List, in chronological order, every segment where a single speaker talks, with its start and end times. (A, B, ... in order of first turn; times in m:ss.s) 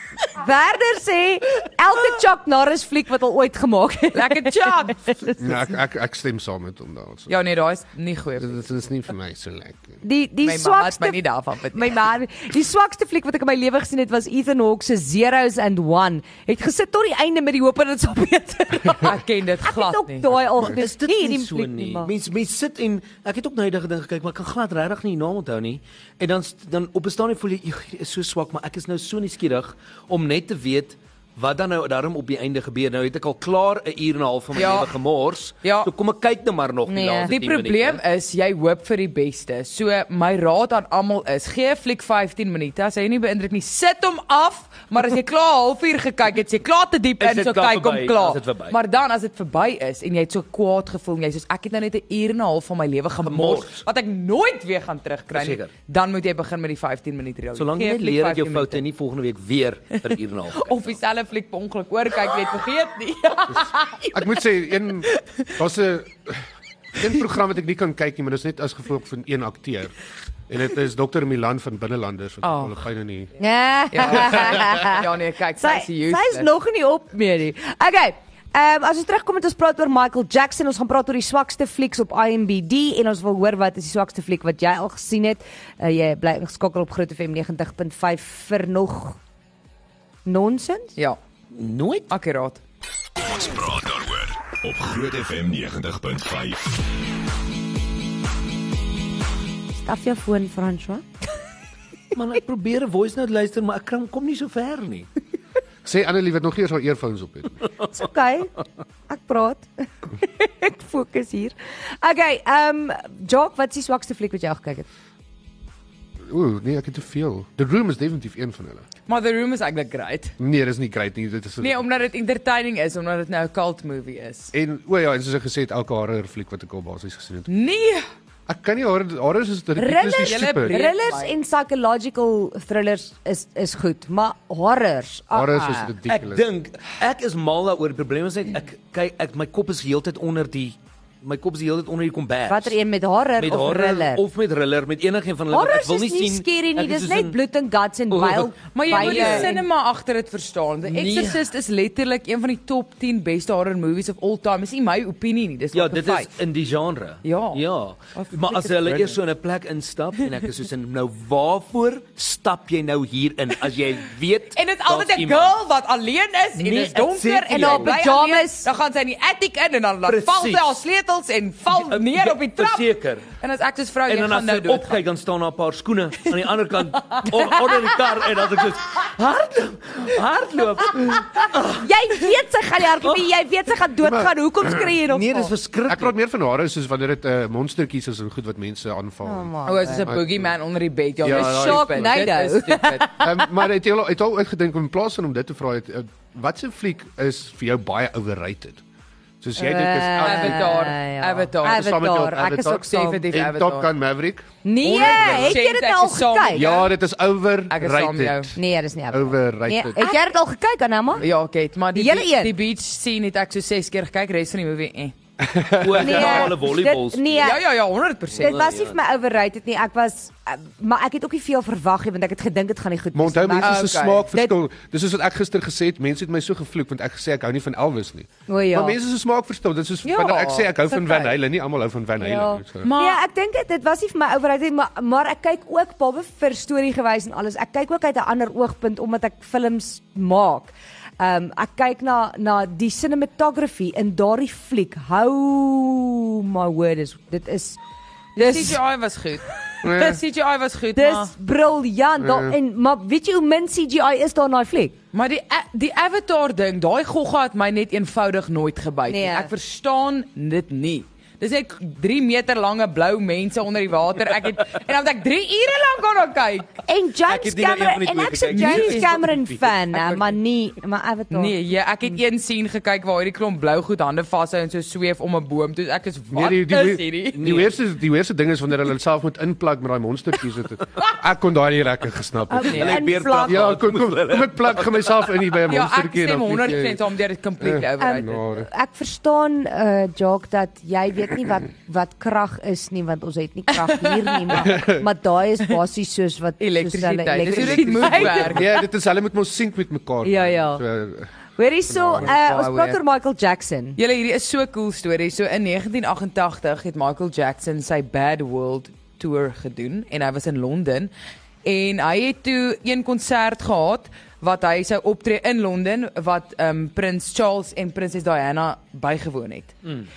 0:00.3-0:04.7 A
0:04.1-0:05.4 B
0:05.4-0:07.3 C
0:07.3-0:08.6 B
0:08.4-0:10.0 C
0:10.0-0:11.2 A
0:10.4-0:11.9 B
0:11.7-0:22.1 A
0:19.0-0:20.3 B
0:20.6-0:38.0 D
0:34.5-0:34.9 B
0:35.6-0:35.9 B
0:36.9-0:37.3 A
0:37.3-0:58.8 B
0:47.2-0:48.8 D
0:53.2-0:53.8 D
0:55.3-0:55.7 D
0:57.5-1:00.9 D
1:00.5-1:04.1 B
1:04.1-1:06.4 C
1:07.0-1:09.9 C
1:10.5-1:13.3 C
1:12.4-1:12.8 B
1:13.4-1:15.1 A
1:13.9-1:16.5 B
1:14.1-1:14.6 C
1:15.6-1:29.2 A
1:30.2-1:31.0 A
1:31.5-1:32.1 D
1:32.1-1:32.6 B
1:33.2-1:36.8 E
1:39.7-1:41.0 A
1:42.1-1:45.1 D
1:45.8-1:47.6 C
1:47.9-1:48.5 A
1:49.1-1:49.7 A
1:50.2-1:54.8 A
1:56.3-1:58.8 C
1:59.1-2:00.3 B
2:00.4-2:01.8 C
2:01.6-2:04.5 B
2:04.5-2:07.5 C
2:07.5-2:08.0 B
2:08.5-2:10.8 C
2:09.8-2:15.9 A
2:10.2-2:11.3 B
2:15.3-2:16.4 C
2:16.1-2:22.7 D
2:22.5-2:24.2 A
2:23.4-2:27.4 D
2:25.5-2:29.6 A
2:28.1-2:29.6 D
2:28.7-2:36.3 B
2:30.8-2:31.5 D
2:35.7-2:45.6 D
2:37.2-2:37.6 B
2:38.1-2:39.2 B
2:44.5-2:55.0 B
2:46.6-2:48.0 D
2:47.5-2:48.7 A
2:50.0-2:50.8 D
2:51.7-2:53.3 D
2:54.1-3:01.8 D
3:01.6-3:05.5 A
3:04.0-3:04.9 C
3:05.1-3:06.1 D
3:05.9-3:10.5 C
3:09.2-3:10.1 A
3:09.6-3:13.1 B
3:11.2-3:12.3 C
3:11.2-3:13.5 A
3:13.2-3:18.8 C
3:19.4-3:20.9 C
3:19.6-3:23.2 A
3:20.2-3:21.8 B
3:21.6-3:25.6 C
3:22.8-3:23.9 B
3:24.6-3:26.7 A
3:24.8-3:26.9 B
3:26.5-3:28.6 C
3:27.7-3:28.5 B
3:28.5-3:31.2 A
3:29.1-3:30.0 C
3:31.2-3:35.1 B
3:31.9-3:32.6 A
3:35.4-3:36.4 C
3:35.8-3:37.6 D
3:36.0-3:37.6 A
3:37.4-3:38.7 B
3:38.3-3:39.0 D
3:38.4-3:44.5 A
3:43.1-3:52.9 C
3:43.6-3:44.3 B
3:48.5-3:49.0 A
3:50.0-3:51.3 B
3:52.2-4:07.8 A
3:52.8-3:53.2 B
4:08.4-4:08.8 A
4:08.4-4:11.3 B
4:09.8-4:10.2 C
4:10.9-4:14.9 A
4:12.2-4:12.6 C
4:15.1-4:26.8 B
4:19.1-4:19.5 A
4:26.8-4:31.5 A
4:27.3-4:29.7 D
4:28.5-4:29.1 B
4:31.3-4:37.4 B
4:36.3-4:47.0 C
4:37.3-4:37.7 D
4:42.5-4:43.7 A
4:42.7-4:45.5 D
4:45.7-4:48.4 B
4:47.6-4:48.7 C
4:48.0-4:58.7 A
4:54.6-4:55.0 C
4:56.6-4:58.7 B
4:57.5-4:58.5 D
4:58.4-5:01.3 C
5:00.2-5:00.8 A
5:01.6-5:04.0 A
5:01.9-5:02.3 C
5:02.2-5:03.0 B
5:04.0-5:11.1 B
5:11.6-5:19.8 B